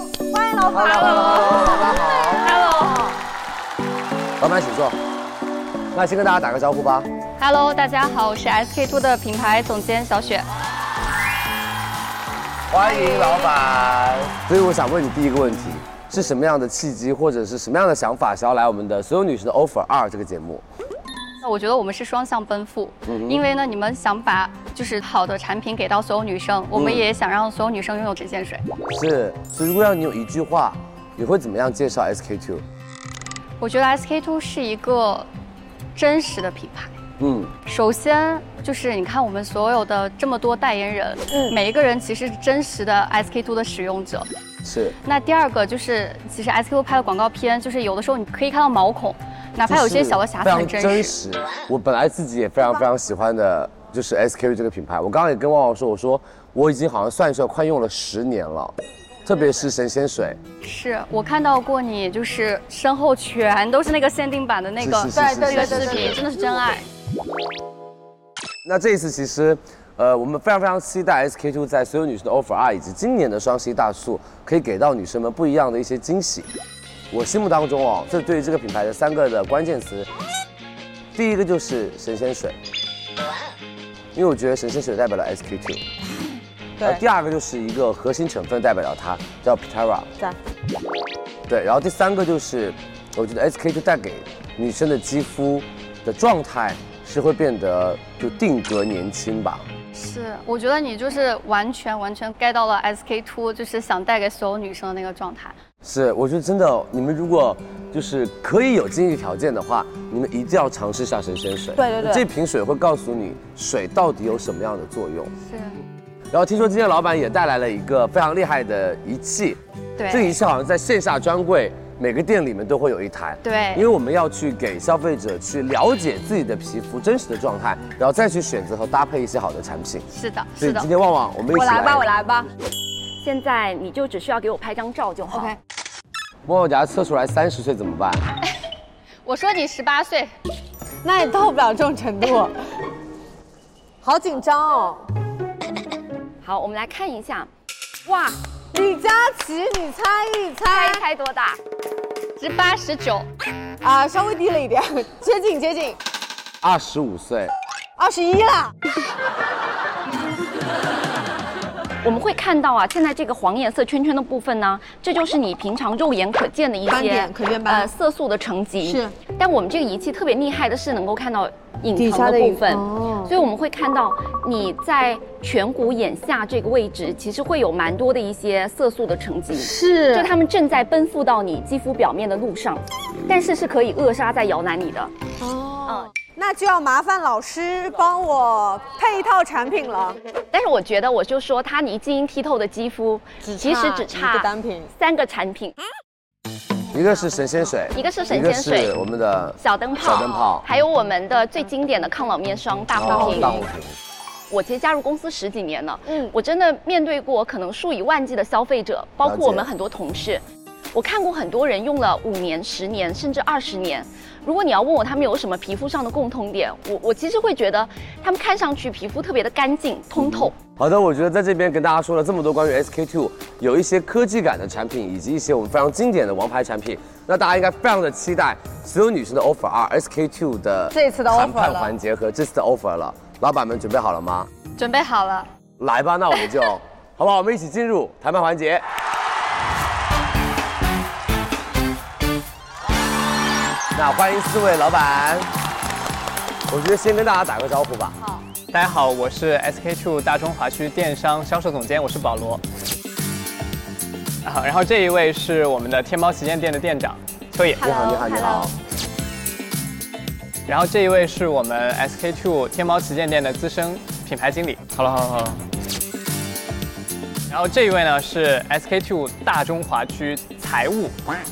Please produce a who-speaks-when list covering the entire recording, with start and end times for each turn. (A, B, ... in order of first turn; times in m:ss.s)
0:00.3-0:03.1 A
0:00.7-0:02.5 B
0:02.4-0:03.1 C
0:04.4-0:05.0 B
0:05.9-0:07.1 B
0:07.4-0:10.5 C
0:12.7-0:20.6 B
0:12.8-0:13.4 A
0:21.4-0:28.6 C
0:23.1-0:23.4 B
0:26.7-0:27.1 B
0:28.9-0:32.6 B
0:33.6-0:35.3 C
0:36.0-0:36.9 C
0:37.2-0:37.5 B
0:37.7-0:44.3 C
0:44.6-0:45.0 B
0:45.0-0:51.2 C
0:49.7-1:00.4 B
1:00.6-1:06.9 C
1:04.8-1:06.2 B
1:05.1-1:06.2 A
1:08.6-1:16.5 B
1:17.1-1:20.1 B
1:21.1-1:22.6 B
1:24.2-1:25.8 B
1:26.8-1:30.1 B
1:31.5-1:39.7 B
1:39.9-1:45.6 C
1:45.8-1:55.3 B
1:51.8-1:52.2 A
1:55.5-1:55.8 C
1:56.3-2:10.1 B
2:00.0-2:00.3 C
2:03.4-2:03.9 C
2:10.1-2:10.9 C
2:10.6-2:12.1 B
2:11.5-2:12.5 A
2:13.2-2:15.5 D
2:15.3-2:15.6 A
2:16.4-2:18.3 B
2:19.2-2:20.3 C
2:21.0-2:22.5 A
2:24.0-2:25.0 A
2:26.4-2:27.5 D
2:28.1-2:31.0 A
2:30.6-2:31.6 D
2:32.4-2:33.3 C
2:33.8-2:36.0 A
2:36.6-2:37.5 B
2:38.0-2:38.7 A
2:42.0-3:05.1 D
2:46.9-2:47.9 A
2:48.8-2:49.2 A
2:51.9-2:53.4 A
2:59.5-3:00.3 A
3:05.4-3:10.2 A
3:10.5-3:15.8 D
3:13.4-3:14.9 A
3:16.9-3:20.6 B
3:18.0-3:18.9 D
3:19.6-3:23.6 D
3:22.9-3:24.0 B
3:23.1-3:23.5 A
3:24.5-3:40.6 D
3:26.1-3:26.3 A
3:29.2-3:29.7 B
3:40.1-3:54.5 B
3:50.9-3:51.9 A
3:54.8-3:55.5 C
3:55.8-3:58.8 B
4:03.9-4:05.5 B
4:06.7-4:08.2 B
4:08.7-4:12.6 E
4:14.4-4:17.8 E
4:17.8-4:18.7 B
4:17.8-4:18.7 C
4:20.7-4:25.6 E
4:27.5-4:31.2 E